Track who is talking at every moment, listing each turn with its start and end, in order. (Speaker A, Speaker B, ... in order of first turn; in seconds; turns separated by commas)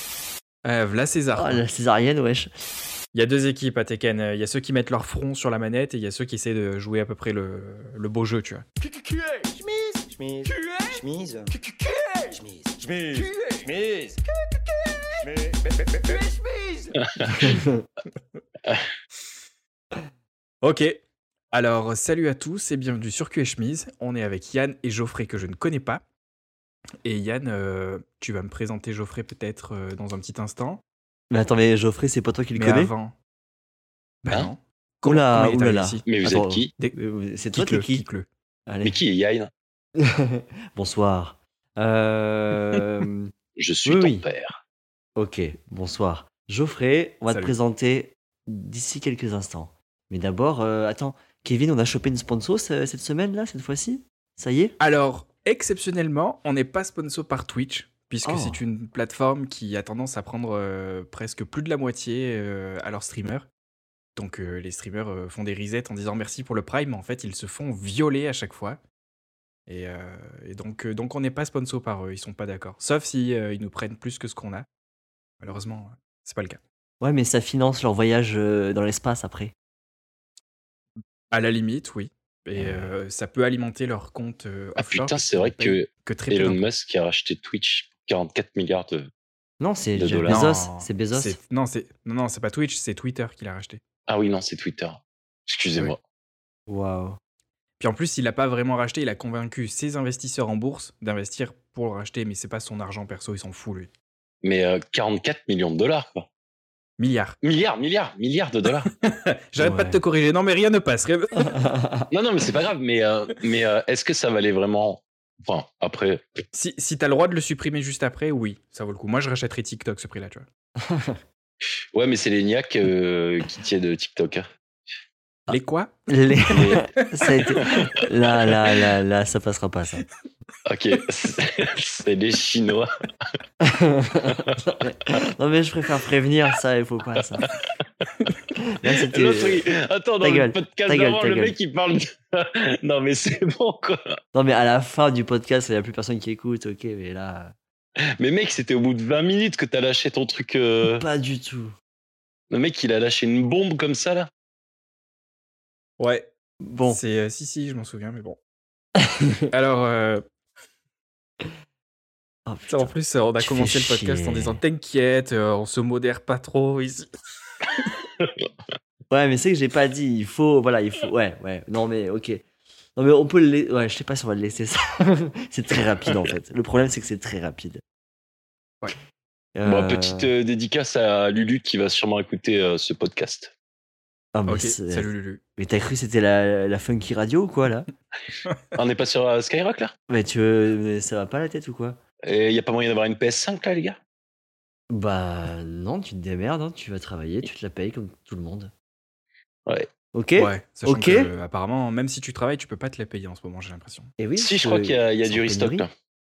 Speaker A: 0.6-1.6, Speaker B: 1.3-2.5, Speaker A: 3.1-8.6, Speaker C: 8.8-17.0, Speaker D: 17.2-17.5, Speaker B: 17.3-17.8, Speaker A: 20.6-21.0, Speaker A: 21.5-26.0, Speaker A: 27.0-30.8, Speaker B: 31.3-32.9, Speaker A: 32.5-33.1, Speaker A: 34.2-36.1, Speaker B: 35.0-38.0, Speaker D: 36.0-36.7, Speaker A: 37.5-38.3, Speaker B: 38.7-39.0, Speaker D: 38.8-39.5, Speaker B: 40.0-43.3, Speaker D: 43.6-44.6, Speaker B: 43.8-44.2, Speaker B: 45.1-54.8, Speaker A: 54.8-63.5, Speaker B: 58.2-58.6, Speaker A: 64.1-68.8, Speaker A: 69.7-74.7, Speaker A: 75.4-76.6, Speaker B: 77.0-79.5, Speaker A: 81.3-86.6, Speaker B: 82.5-82.9, Speaker D: 84.8-89.1, Speaker B: 89.6-91.3, Speaker D: 90.0-90.4, Speaker A: 90.3-93.8, Speaker D: 94.1-96.0, Speaker B: 96.7-97.2, Speaker A: 97.8-103.9, Speaker D: 104.4-106.2, Speaker A: 107.0-107.4, Speaker D: 107.4-108.9, Speaker A: 108.9-111.6, Speaker B: 109.6-110.0, Speaker B: 111.5-112.0, Speaker D: 112.1-116.2, Speaker A: 116.5-120.5, Speaker B: 120.8-121.2, Speaker D: 121.9-124.5, Speaker A: 125.5-125.9, Speaker B: 126.1-130.1, Speaker D: 126.5-126.9, Speaker A: 127.1-127.4, Speaker D: 127.6-127.9, Speaker D: 130.7-132.9, Speaker B: 133.6-137.4, Speaker D: 134.3-134.6, Speaker B: 138.6-139.6, Speaker D: 139.1-144.0, Speaker B: 140.2-141.5, Speaker B: 144.3-147.5, Speaker D: 148.2-151.0, Speaker B: 150.9-151.7, Speaker D: 152.5-154.3, Speaker A: 156.0-156.3, Speaker B: 156.6-157.0, Speaker A: 156.9-158.4, Speaker B: 159.0-159.5, Speaker A: 159.5-160.2, Speaker B: 162.4-164.6, Speaker A: 162.7-167.1, Speaker B: 169.1-172.4, Speaker B: 172.9-177.8, Speaker B: 179.5-180.3, Speaker D: 179.6-183.5, Speaker B: 184.3-187.9, Speaker A: 184.5-185.4, Speaker D: 188.7-189.9, Speaker B: 190.1-192.0, Speaker D: 192.2-194.0, Speaker B: 194.9-198.7, Speaker B: 200.1-201.3, Speaker A: 200.4-204.1, Speaker B: 204.2-205.8, Speaker D: 204.4-205.9